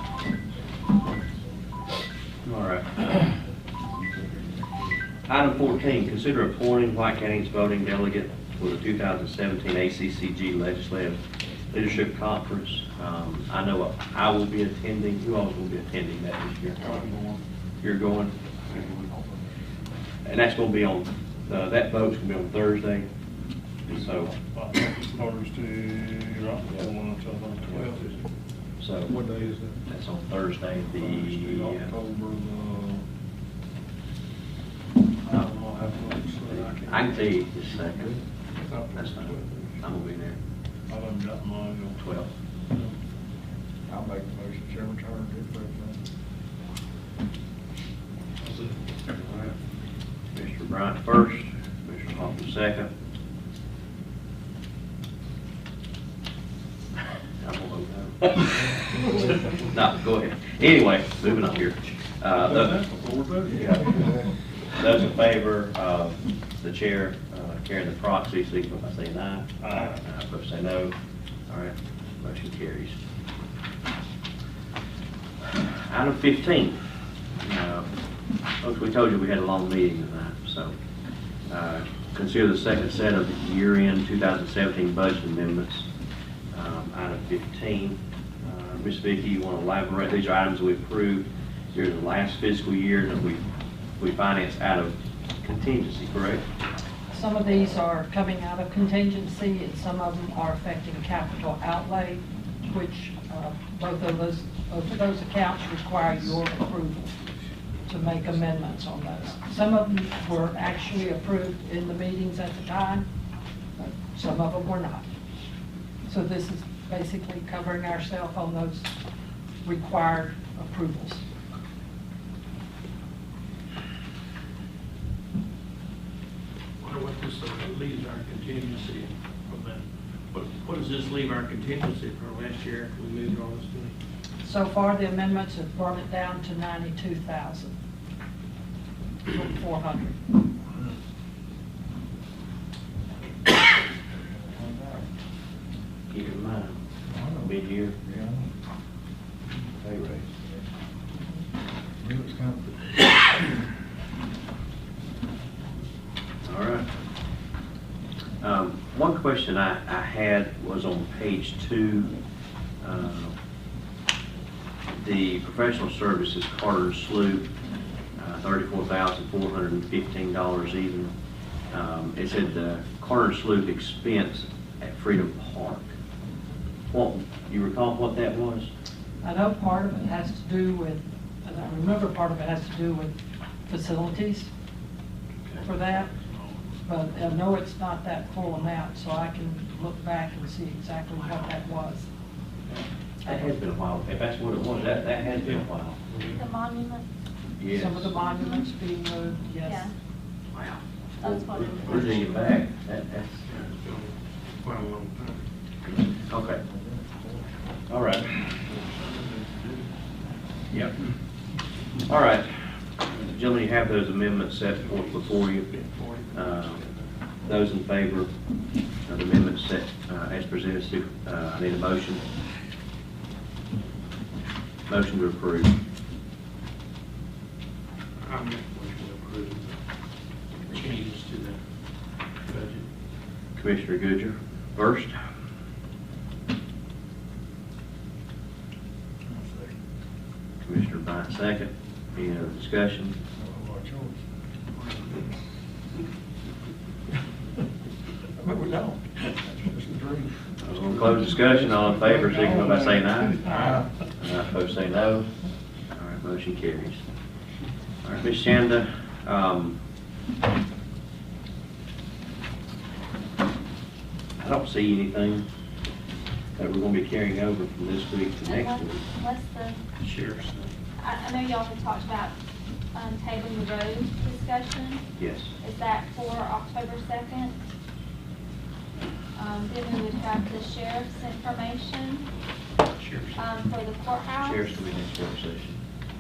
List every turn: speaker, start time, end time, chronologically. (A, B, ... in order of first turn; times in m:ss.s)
0:02.4-0:03.0 A
0:03.9-0:04.9 B
0:05.3-0:11.2 A
0:11.7-0:17.0 A
0:16.8-0:17.4 C
0:17.8-0:18.4 A
0:19.1-0:19.4 B
0:20.2-0:23.1 A
0:23.9-0:24.3 A
0:23.9-0:28.2 D
0:28.8-0:29.2 A
0:29.1-0:29.8 D
0:29.9-0:31.9 A
0:30.9-0:33.0 D
0:35.2-0:38.1 D
0:36.5-0:38.2 A
0:39.0-0:40.4 A
0:40.9-0:42.0 D
0:42.0-0:42.3 A
0:43.9-0:46.0 B
0:48.4-0:48.8 C
0:49.2-0:49.5 A
0:50.3-0:52.9 A
0:57.4-0:58.5 A
0:59.7-1:02.8 A
1:02.3-1:04.2 D
1:03.5-1:03.9 A
1:03.9-1:04.2 B
1:04.8-1:09.5 A
1:09.6-1:10.0 D
1:10.0-1:10.9 A
1:11.5-1:13.0 A
1:15.6-1:16.8 A
1:17.4-1:17.9 A
1:18.6-1:20.7 A
1:21.5-1:25.9 A
1:26.5-1:33.4 A
1:34.0-1:36.4 A
1:37.1-1:47.1 E
1:47.9-1:53.0 E
1:53.8-1:55.1 E
1:56.1-1:58.9 E
1:59.6-2:01.2 E
2:06.8-2:13.9 C
2:14.4-2:17.7 E
2:19.3-2:20.2 E
2:24.3-2:25.1 B
2:26.1-2:26.8 A
2:27.1-2:28.5 B
2:27.4-2:27.9 A
2:29.8-2:30.6 B
2:32.0-2:32.8 B
2:36.5-2:36.9 A
2:38.4-2:42.1 A
2:42.8-2:43.3 A
2:45.0-2:47.5 A
2:48.2-2:51.1 A
2:51.7-2:55.9 A
2:56.9-2:58.7 A
2:59.2-3:03.2 E
3:03.7-3:04.5 E
3:05.6-3:06.1 E
3:05.8-3:06.7 C
3:06.9-3:12.1 E
3:13.2-3:13.5 E
3:13.3-3:16.0 A
3:16.1-3:16.4 C
3:16.3-3:17.0 F
3:17.6-3:18.0 A
3:17.7-3:19.9 E
3:18.3-3:18.6 F
3:19.6-3:19.9 F
3:20.5-3:23.4 A
3:21.2-3:22.3 F
3:21.9-3:22.4 C
3:23.5-3:25.4 C
3:26.3-3:26.6 A
3:26.6-3:27.7 B
3:27.9-3:28.4 A
3:28.4-3:29.9 C
3:32.1-3:32.5 A
3:33.0-3:35.7 A
3:34.7-3:37.1 C
3:36.3-3:36.8 A
3:37.4-3:38.3 A
3:39.1-3:42.2 A
3:44.9-3:45.7 A
3:48.2-3:49.8 C
3:50.7-3:51.6 C
3:52.5-3:52.9 C
3:53.6-3:55.2 A
3:59.3-3:59.7 B
4:00.6-4:03.2 A
4:03.3-4:04.2 B
4:08.4-4:10.4 B
4:10.6-4:13.5 A
4:10.8-4:13.6 D
4:13.4-4:13.8 C
4:14.2-4:15.3 A
4:15.9-4:17.0 A
4:18.0-4:19.8 A
4:24.4-4:25.4 A
4:26.6-4:29.0 A
4:28.4-4:29.8 F
4:30.0-4:30.6 C
4:31.0-4:32.3 F
4:32.9-4:35.0 F
4:35.2-4:35.5 A
4:35.6-4:37.6 F
4:39.4-4:42.3 F
4:43.4-4:44.8 F
4:44.4-4:45.8 A